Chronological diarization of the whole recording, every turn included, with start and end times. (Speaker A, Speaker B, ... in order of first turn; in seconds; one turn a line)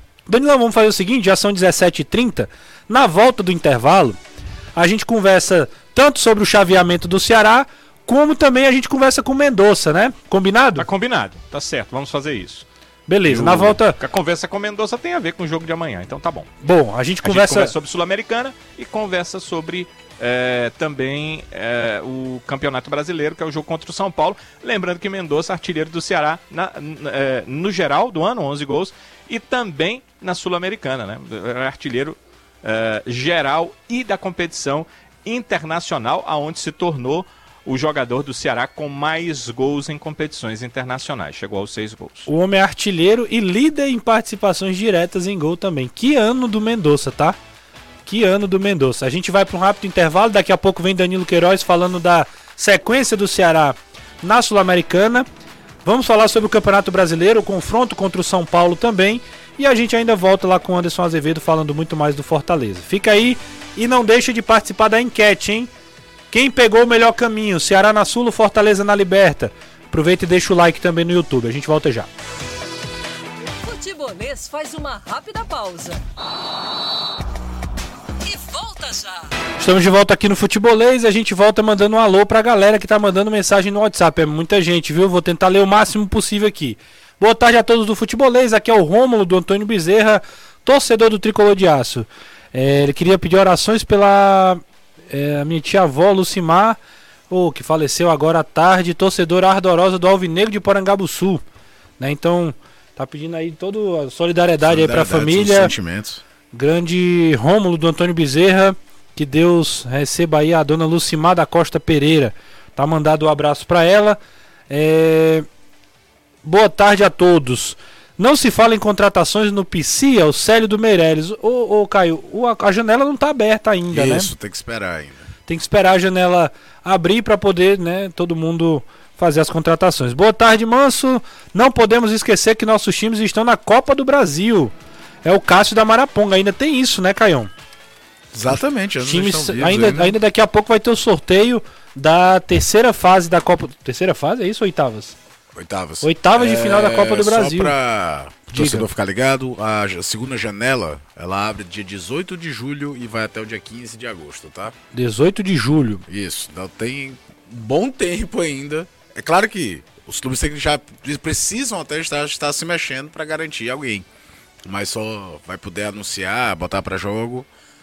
Speaker A: 0.3-4.2
Speaker A: 4.8-10.8
Speaker B: 10.8-12.7
Speaker A: 13.1-14.0
Speaker B: 13.3-16.5
Speaker A: 16.6-17.7
Speaker B: 17.2-42.3
Speaker A: 42.3-47.4
Speaker A: 48.1-55.3
Speaker A: 55.9-65.7
Speaker A: 66.3-72.1
Speaker C: 73.6-76.0
Speaker C: 78.2-79.3
Speaker A: 79.6-96.8
Speaker A: 97.3-101.4
Speaker A: 102.0-105.7
Speaker D: 104.6-106.2
Speaker A: 106.5-114.2
Speaker A: 114.7-115.5
Speaker A: 116.5-124.3
Speaker D: 123.9-125.2
Speaker A: 125.5-134.7
Speaker A: 135.2-137.5
Speaker D: 138.3-140.2
Speaker A: 139.0-145.2
Speaker D: 145.5-154.8
Speaker A: 146.0-147.8
Speaker A: 148.5-148.9
Speaker A: 154.9-156.0
Speaker D: 156.1-164.1
Speaker D: 164.7-167.5